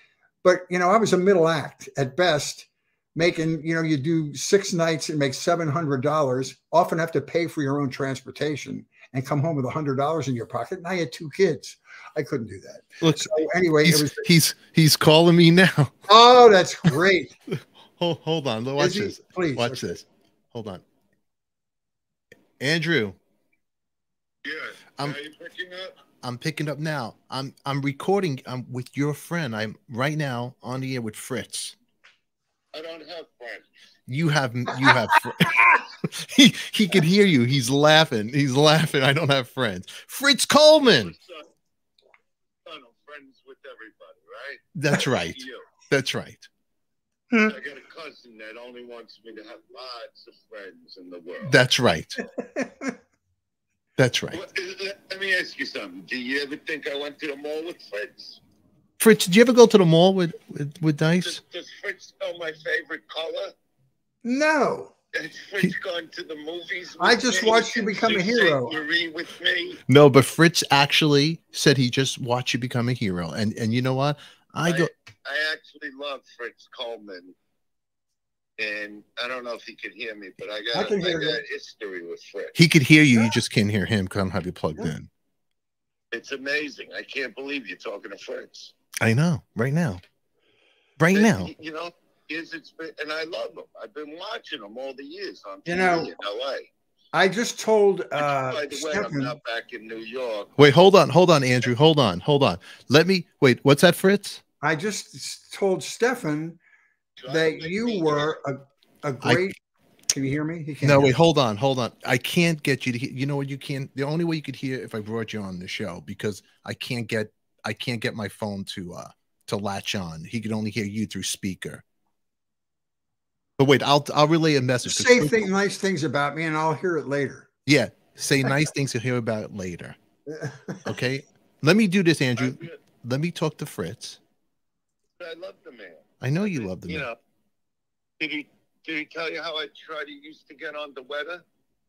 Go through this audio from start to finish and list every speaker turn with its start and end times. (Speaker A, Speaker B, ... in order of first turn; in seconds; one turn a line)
Speaker A: 0.4-14.3
Speaker B: 13.0-15.9
Speaker A: 16.1-17.3
Speaker B: 18.0-20.8
Speaker A: 18.8-19.9
Speaker B: 22.6-23.2
Speaker C: 24.4-25.9
Speaker B: 26.2-31.8
Speaker C: 32.7-33.7
Speaker B: 34.1-41.1
Speaker C: 40.8-41.4
Speaker C: 42.6-45.6
Speaker B: 44.8-46.5
Speaker C: 47.4-51.5
Speaker B: 51.4-52.2
Speaker A: 52.4-52.9
Speaker B: 54.0-54.4
Speaker C: 54.3-58.4
Speaker B: 59.0-61.4
Speaker C: 61.2-63.5
Speaker A: 64.2-64.9
Speaker C: 65.1-69.8
Speaker A: 67.0-68.7
Speaker B: 69.9-74.9
Speaker C: 74.6-77.3
Speaker C: 78.6-82.5
Speaker A: 80.7-81.4
Speaker B: 82.5-85.1
Speaker C: 86.1-88.7
Speaker B: 89.0-90.0
Speaker B: 91.0-91.5
Speaker C: 91.1-96.7
Speaker A: 95.7-96.1
Speaker A: 97.1-99.3
Speaker C: 98.2-100.5
Speaker B: 100.6-104.4
Speaker A: 104.6-106.6
Speaker C: 107.2-108.4
Speaker A: 107.3-109.5
Speaker A: 110.1-111.1
Speaker B: 110.8-121.8
Speaker B: 123.6-125.5
Speaker A: 124.8-127.5
Speaker B: 127.7-129.9
Speaker A: 130.3-130.8
Speaker B: 130.8-134.2
Speaker C: 132.4-132.8
Speaker C: 135.2-137.2
Speaker B: 136.2-137.1
Speaker C: 138.2-141.4